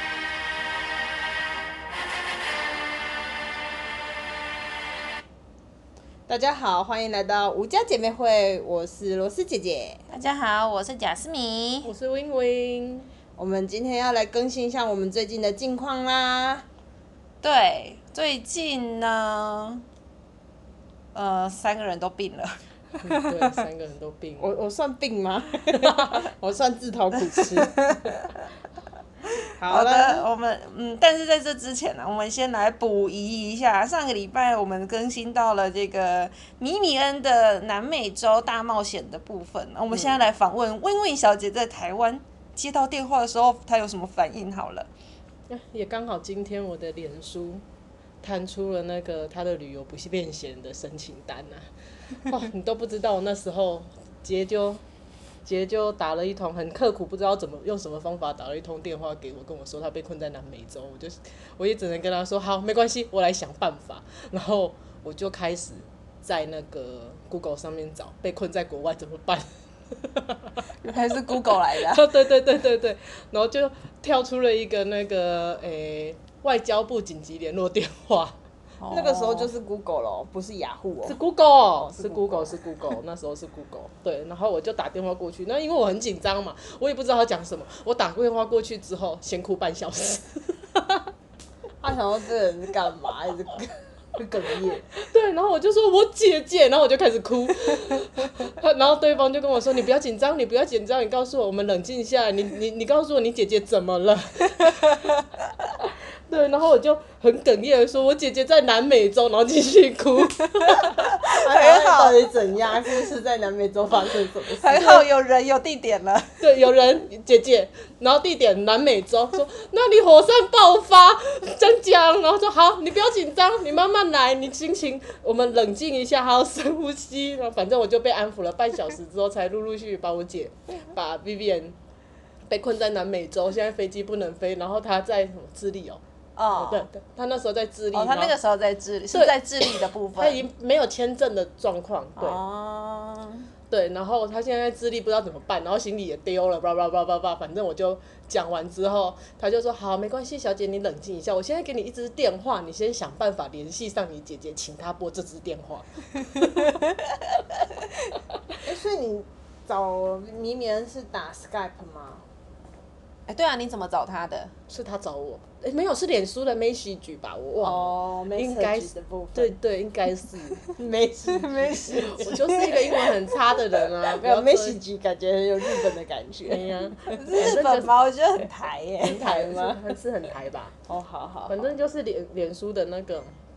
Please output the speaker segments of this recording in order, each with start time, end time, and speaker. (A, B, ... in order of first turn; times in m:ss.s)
0:06.3-0:10.0 A
0:10.1-0:11.9 B
0:11.8-0:13.1 C
0:13.4-0:16.6 A
0:17.4-0:19.8 B
0:21.1-0:23.6 B
0:23.0-0:24.6 C
0:24.4-0:28.0 A
0:25.7-0:26.2 C
0:29.6-0:30.3 A
0:29.6-0:44.9 B
0:45.5-0:47.6 C
0:48.2-0:54.8 C
0:55.4-1:10.6 C
1:10.8-1:12.2 B
1:11.3-1:18.4 C
1:18.8-1:19.5 B
1:18.9-1:21.2 A
1:21.0-1:31.1 C
1:21.8-1:22.6 A
1:31.8-1:34.9 A
1:35.0-1:45.1 C
1:45.8-1:51.0 C
1:50.8-1:52.2 B
1:51.3-1:55.0 A
1:54.6-1:56.4 B
1:56.4-2:11.8 C
2:12.5-2:16.0 C
2:16.4-2:16.9 B
2:16.5-2:18.3 C
2:17.9-2:20.4 B
2:19.1-2:22.4 C
2:22.2-2:23.5 B
2:23.7-2:36.8 C
2:38.6-2:42.2 A
2:43.3-2:44.5 B
2:44.7-2:50.6 C
2:47.6-2:49.5 A
2:50.7-2:52.4 A
2:51.3-2:53.1 B
2:51.9-2:54.8 C
2:54.1-2:57.2 A
2:56.5-2:57.9 C
2:57.2-2:59.3 B
2:59.0-3:00.8 C
2:59.2-2:59.8 A
3:00.8-3:01.6 A
3:01.5-3:03.4 C